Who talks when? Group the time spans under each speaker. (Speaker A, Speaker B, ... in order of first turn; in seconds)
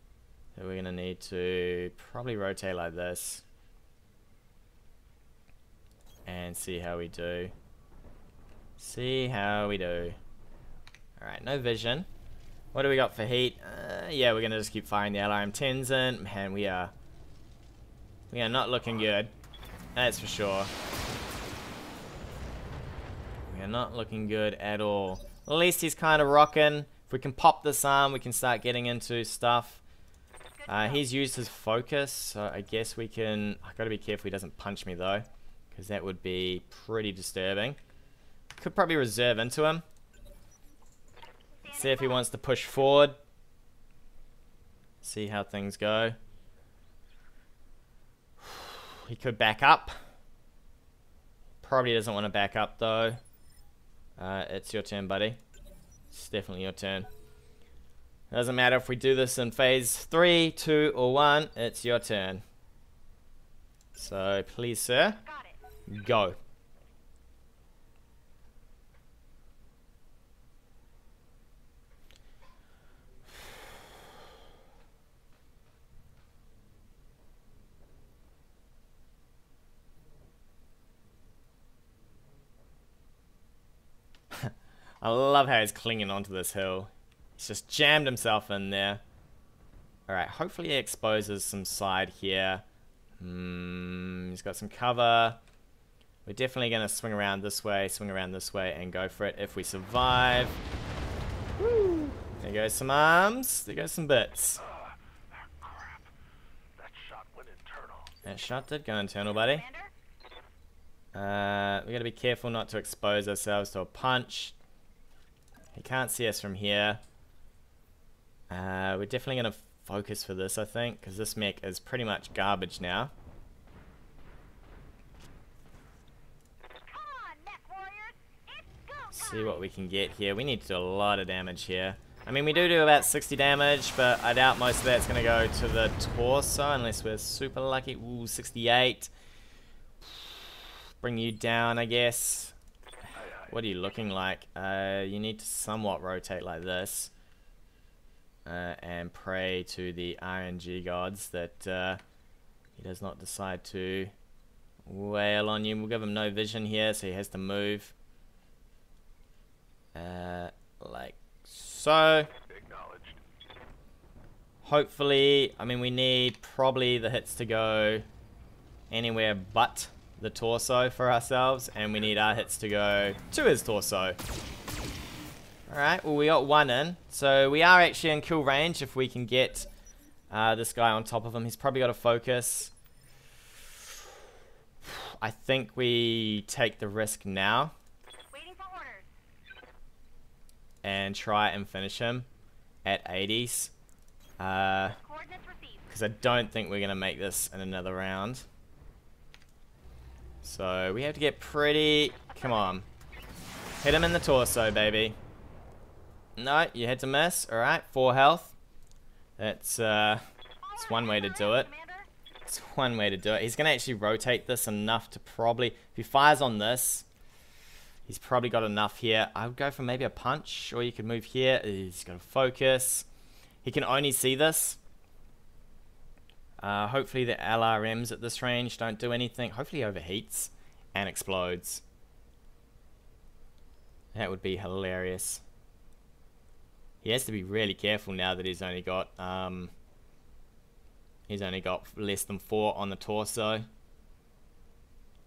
Speaker A: 0.6-3.4, 6.3-7.5, 8.8-10.2, 11.2-12.1, 12.7-16.9, 18.3-19.3, 20.0-20.7, 23.5-29.8, 30.7-37.8, 38.6-39.8, 41.7-43.2, 45.0-46.2, 48.4-50.0, 51.6-53.2, 54.2-55.4, 56.1-57.1, 58.3-62.4, 64.0-65.2, 65.9-66.4, 84.3-89.0, 90.1-92.6, 93.2-95.4, 96.3-100.6, 101.6-104.6, 108.2-109.6, 111.1-114.5, 115.7-117.0, 118.5-123.1, 129.1-139.1, 141.0-142.6, 143.5-147.1, 148.5-152.0, 152.8-154.1, 154.9-157.9, 159.9-162.3, 164.6-168.1, 168.9-174.2, 175.7-179.7, 180.3-182.7, 184.8-187.7, 190.8-192.3, 192.8-193.7, 194.4-195.0, 195.9-198.5, 200.4-202.9, 203.8-205.2, 206.4-208.6, 209.4-210.2, 210.8-211.7, 212.5-217.1, 218.1-223.1, 223.6-224.8, 226.6-231.8, 234.1-235.4, 237.0-239.7, 241.3-243.7
Speaker B: 30.6-31.1, 41.6-42.2, 65.2-65.6, 109.3-109.9, 126.8-129.7, 188.3-189.1, 195.0-195.9, 202.3-202.8, 210.6-212.1
Speaker C: 104.6-106.1, 106.8-108.1, 143.2-143.6, 162.5-163.2, 172.0-172.3